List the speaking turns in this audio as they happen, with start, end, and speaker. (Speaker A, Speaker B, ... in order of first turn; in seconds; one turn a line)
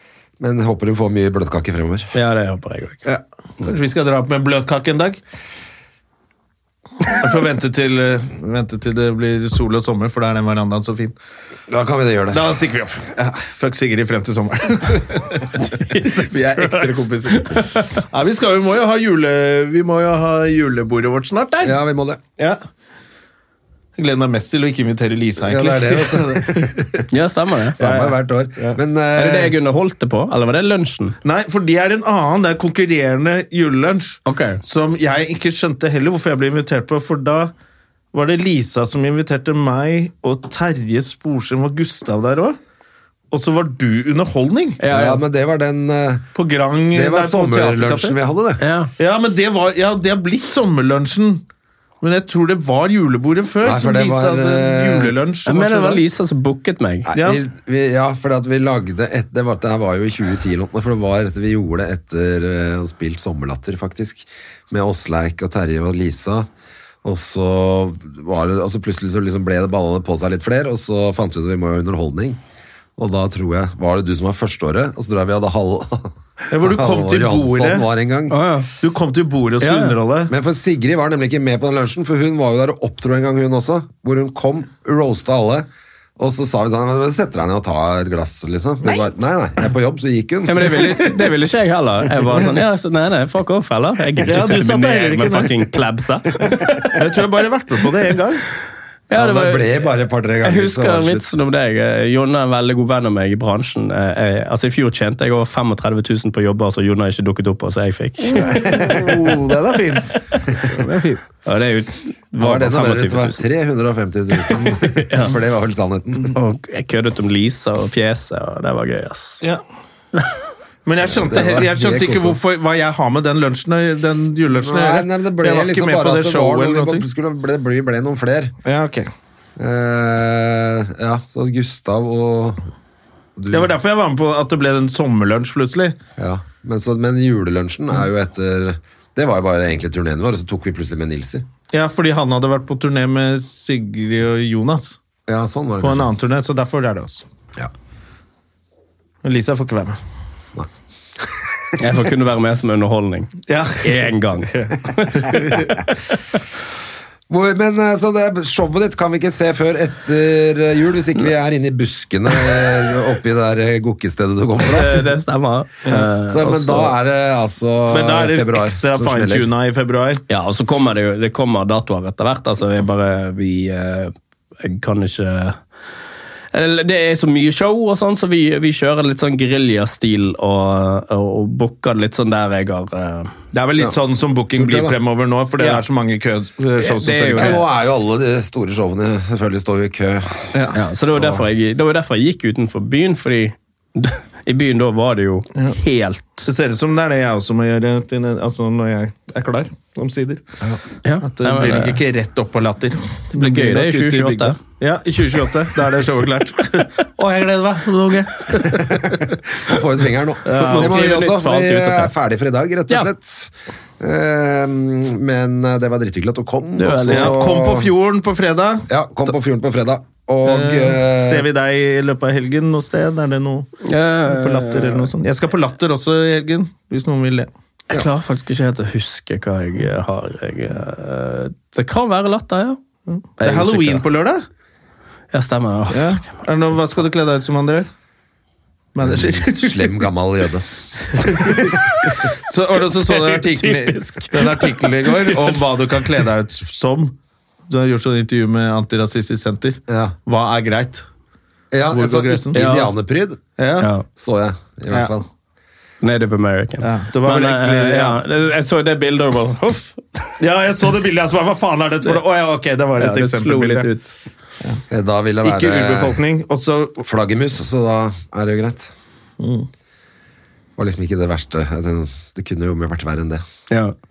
Speaker A: 0.4-2.1
Speaker B: 2.1-3.0
Speaker C: 3.0-5.2
Speaker C: 7.0-11.1
Speaker A: 11.7-12.4
Speaker C: 12.3-15.5
Speaker B: 15.5-18.0
Speaker C: 16.0-21.8
Speaker A: 21.6-22.2
Speaker C: 24.0-27.0
Speaker A: 25.4-27.0
Speaker B: 27.1-27.8
Speaker A: 27.8-29.5
Speaker C: 27.8-28.8
Speaker B: 29.1-31.1
Speaker C: 31.2-37.5
Speaker B: 34.2-34.6
Speaker C: 38.1-42.6
Speaker C: 43.3-44.8
Speaker B: 44.8-45.2
Speaker A: 44.9-46.2
Speaker C: 46.3-48.1
Speaker A: 46.9-48.6
Speaker B: 48.6-48.9
Speaker C: 49.0-51.4
Speaker C: 52.0-56.0
Speaker A: 53.6-55.1
Speaker B: 55.5-57.1
Speaker A: 57.1-66.5
Speaker C: 57.1-57.4
Speaker A: 67.0-72.4
Speaker A: 73.0-78.4
Speaker C: 76.5-77.8
Speaker B: 78.3-78.7
Speaker C: 78.8-80.3
Speaker B: 79.6-79.9
Speaker A: 80.3-91.1
Speaker B: 90.5-97.0
Speaker C: 94.2-95.5
Speaker C: 96.9-98.4
Speaker B: 99.1-99.8
Speaker A: 99.1-101.3
Speaker B: 100.4-108.6
Speaker C: 108.2-111.2
Speaker A: 108.5-109.4
Speaker B: 111.4-113.5
Speaker A: 112.4-116.4
Speaker B: 114.5-115.3
Speaker B: 116.3-119.4
Speaker B: 120.1-120.4
Speaker C: 120.8-127.0
Speaker A: 121.0-122.4
Speaker A: 124.5-128.5
Speaker C: 128.6-129.1
Speaker A: 129.6-132.6
Speaker A: 133.4-133.7
Speaker C: 133.5-135.9
Speaker A: 136.2-141.4
Speaker C: 141.7-145.0
Speaker A: 145.3-146.1
Speaker C: 145.8-147.2
Speaker C: 149.2-150.0
Speaker A: 151.2-151.5
Speaker B: 151.8-155.9
Speaker C: 153.5-155.7
Speaker A: 157.3-165.1
Speaker B: 164.6-166.9
Speaker A: 165.9-169.5
Speaker C: 167.9-170.2
Speaker B: 170.3-175.6
Speaker B: 176.5-183.3
Speaker C: 183.5-187.6
Speaker A: 184.5-185.0
Speaker B: 186.8-187.6
Speaker A: 187.3-190.5
Speaker C: 190.5-190.8
Speaker B: 190.7-196.5
Speaker C: 196.4-200.4
Speaker B: 201.0-202.0
Speaker C: 201.2-209.2
Speaker B: 203.3-204.6
Speaker A: 208.6-217.9
Speaker C: 210.4-211.1
Speaker B: 210.6-212.1
Speaker B: 216.8-217.5
Speaker C: 217.0-218.9
Speaker A: 218.9-221.5
Speaker C: 220.4-227.5
Speaker B: 223.8-225.1
Speaker B: 227.9-232.8
Speaker C: 233.1-234.4
Speaker B: 233.4-234.0
Speaker B: 235.3-236.4
Speaker C: 235.9-237.8
Speaker C: 238.9-239.9
Speaker A: 239.0-240.6
Speaker C: 241.1-241.7
Speaker A: 241.2-241.7
Speaker C: 242.4-247.1
Speaker B: 243.1-245.6
Speaker C: 247.7-251.0
Speaker A: 249.9-250.1
Speaker A: 251.7-253.4
Speaker C: 251.9-252.6
Speaker B: 252.5-252.9
Speaker C: 253.6-253.9
Speaker B: 253.8-254.0
Speaker A: 254.2-255.2
Speaker C: 254.9-255.2
Speaker B: 256.0-260.4
Speaker C: 256.8-258.2
Speaker C: 260.4-263.9
Speaker B: 263.0-264.1
Speaker A: 264.9-266.2
Speaker C: 265.4-267.0
Speaker A: 267.0-268.9
Speaker C: 269.4-269.7
Speaker A: 270.8-273.4